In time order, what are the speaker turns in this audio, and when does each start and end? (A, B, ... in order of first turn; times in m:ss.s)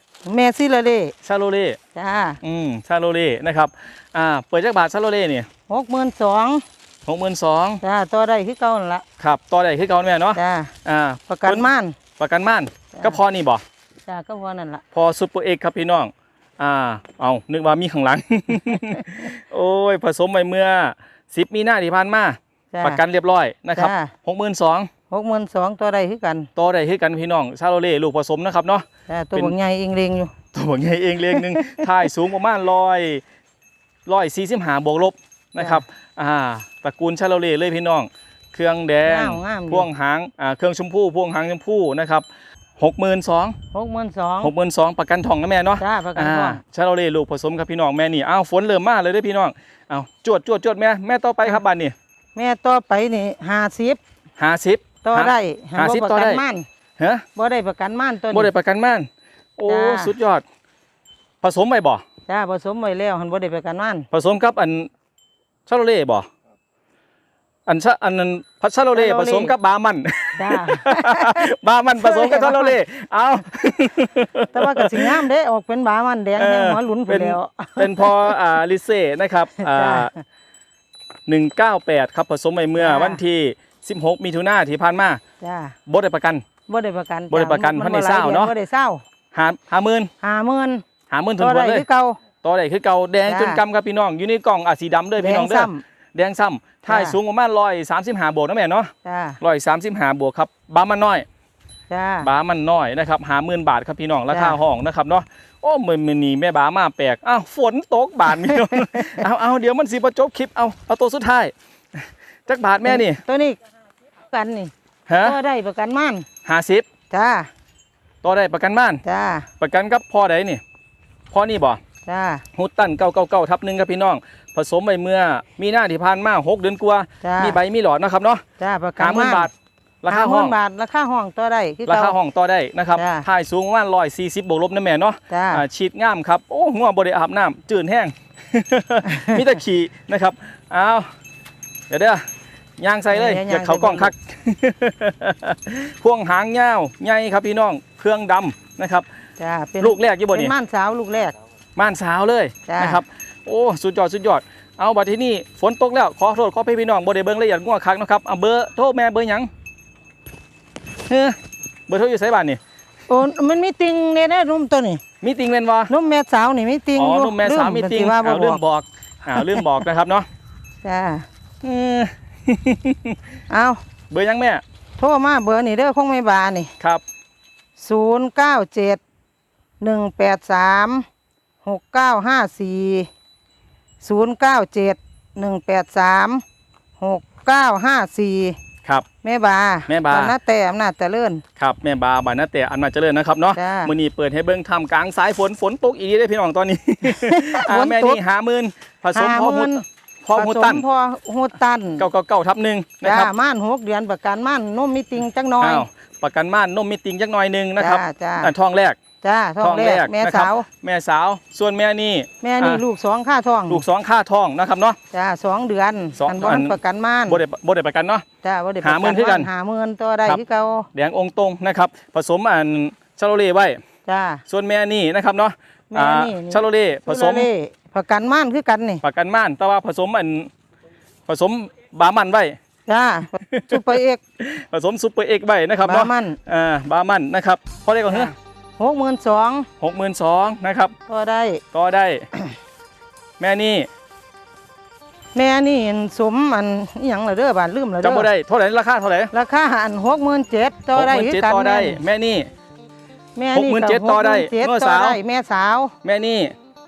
0:00.2-0:01.1 A
0:01.2-0:01.8 B
0:01.9-0:02.4 A
0:02.4-0:05.5 B
0:05.7-0:06.6 A
0:07.0-0:07.8 B
0:07.8-0:09.0 A
0:09.2-0:11.7 B
0:10.3-0:10.7 A
0:11.3-0:12.0 A
0:12.2-0:13.6 B
0:14.0-0:14.8 A
0:14.9-0:24.9 B
0:22.7-0:23.0 A
0:23.8-0:24.1 A
0:25.1-0:26.5 A
0:26.6-0:29.5 B
0:29.1-0:30.3 A
0:30.5-0:33.2 B
0:31.3-0:31.9 A
0:34.0-0:42.3 B
0:39.0-0:39.9 A
0:42.8-0:43.6 B
0:43.7-0:44.5 A
0:44.4-0:51.9 B
0:45.8-0:46.6 A
0:52.3-0:54.0 A
0:54.4-0:56.4 B
0:55.0-0:56.6 A
0:57.0-0:57.2 B
0:57.3-0:58.5 A
0:58.3-1:00.4 B
0:59.7-1:00.1 A
1:01.4-1:02.0 B
1:02.3-1:04.1 A
1:04.1-1:04.9 B
1:05.6-1:06.3 B
1:07.6-1:15.2 B
1:08.9-1:09.5 A
1:10.4-1:11.5 A
1:12.0-1:12.8 A
1:14.5-1:18.4 A
1:16.4-1:20.1 B
1:19.6-1:20.2 A
1:21.3-1:25.2 B
1:22.8-1:23.2 A
1:25.4-1:25.8 A
1:25.9-1:26.4 B
1:26.7-1:29.0 A
1:27.3-1:28.5 B
1:29.3-1:30.1 B
1:30.2-1:30.8 A
1:31.1-1:31.8 B
1:31.4-1:32.2 A
1:32.4-1:41.2 B
1:33.2-1:33.6 A
1:35.2-1:35.8 A
1:36.9-1:37.2 A
1:39.0-1:39.4 A
1:41.9-1:42.3 A
1:42.2-1:53.2 B
1:44.3-1:44.6 A
1:48.3-1:49.2 A
1:52.8-1:53.6 A
1:54.2-1:56.3 A
1:55.1-1:55.4 B
1:56.4-1:56.8 B
1:57.1-1:57.5 A
1:58.2-1:59.0 B
1:59.0-1:59.5 A
1:59.6-2:00.6 B
2:01.3-2:01.8 B
2:02.0-2:02.4 A
2:02.5-2:08.4 B
2:07.2-2:07.6 A
2:08.6-2:09.5 A
2:09.0-2:10.6 B
2:10.1-2:12.2 A
2:11.9-2:21.1 B
2:12.9-2:13.2 A
2:15.3-2:15.6 A
2:19.0-2:19.4 A
2:21.9-2:22.3 B
2:22.8-2:29.0 B
2:23.1-2:24.1 A
2:29.4-2:31.3 A
2:29.8-2:30.5 B
2:31.8-2:39.5 B
2:32.6-2:33.0 A
2:41.1-2:41.4 B
2:41.9-2:42.6 B
2:43.1-2:45.0 A
2:45.2-2:45.9 B
2:45.9-2:48.6 A
2:46.9-2:50.3 B
2:49.4-2:49.6 A
2:50.8-2:51.2 A
2:51.6-2:53.2 B
2:53.5-2:53.8 A
2:54.1-2:54.6 B
2:55.0-2:56.7 A
2:57.8-2:59.0 A
2:59.8-3:01.0 A
3:01.6-3:03.1 A
3:04.0-3:06.4 A
3:07.0-3:08.6 A
3:09.2-3:11.4 A
3:09.9-3:10.3 B
3:11.6-3:20.8 B
3:13.5-3:13.9 A
3:17.0-3:18.2 A
3:19.1-3:19.8 A
3:20.3-3:22.0 A
3:22.0-3:23.3 B
3:23.0-3:25.8 A
3:25.6-3:29.0 B
3:27.8-3:28.5 A
3:29.2-3:30.7 A
3:29.6-3:32.8 B
3:32.4-3:33.8 A
3:33.7-3:35.0 B
3:35.1-3:37.4 A
3:36.2-3:38.2 B
3:38.4-3:40.9 A
3:38.8-3:39.5 B
3:40.9-3:43.8 B
3:44.0-3:44.4 A
3:44.5-3:47.5 B
3:45.9-3:49.0 A
3:49.0-3:50.5 B
3:51.3-3:52.6 B
3:52.8-3:54.2 A
3:53.5-3:53.9 B
3:54.4-3:58.3 B
3:55.8-3:56.4 A
3:58.1-3:59.7 A
3:59.8-4:00.9 B
4:01.1-4:01.6 A
4:01.7-4:02.3 B
4:03.4-4:03.9 B
4:05.3-4:08.3 A
4:08.0-4:09.3 B
4:09.3-4:12.0 A
4:10.9-4:12.5 B
4:13.4-4:15.9 A
4:13.5-4:15.2 B
4:16.0-4:16.6 B